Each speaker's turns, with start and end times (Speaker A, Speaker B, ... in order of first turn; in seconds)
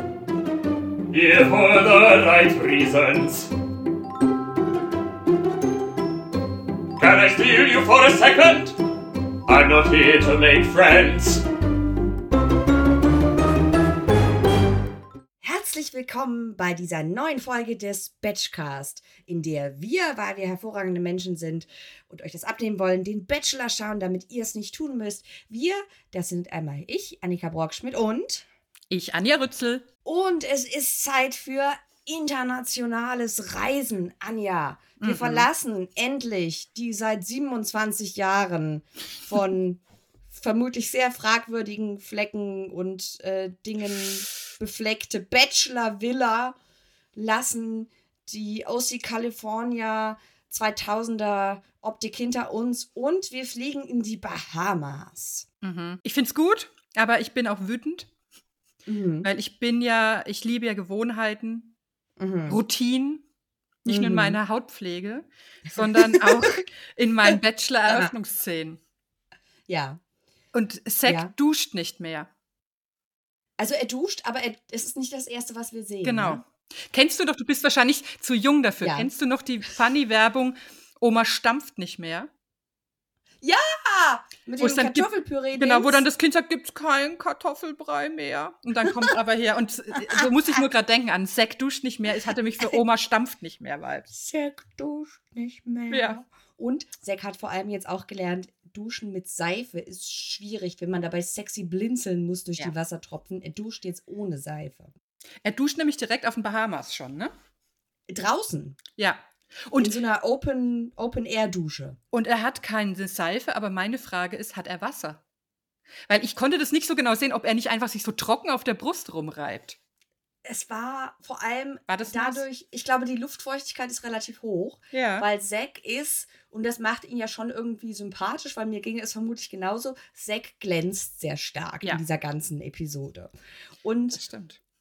Speaker A: 1.1-3.5, 7.0-8.8, 9.5-11.4
Speaker B: 15.4-28.5, 30.1-46.6, 47.1-55.5, 58.9-59.3, 62.2-62.6, 63.9-64.4, 65.7-66.7, 67.3-68.1, 69.7-70.0, 71.0-71.3, 73.6-76.4, 78.8-79.1, 83.4-86.0, 88.9-89.2, 90.0-90.7, 94.1-104.9, 108.1-108.8, 109.8-112.0, 120.5-133.3, 133.8-134.2
Speaker C: 28.9-29.9, 35.0-35.5, 55.6-58.1, 59.2-61.7, 62.5-63.2, 63.9-68.8, 70.5-72.3, 76.0-82.3, 84.6-94.1, 95.9-96.2, 105.4-107.3, 109.0-110.0, 112.1-115.2, 116.1-119.8, 121.9-122.5, 124.9-125.3, 134.1-134.6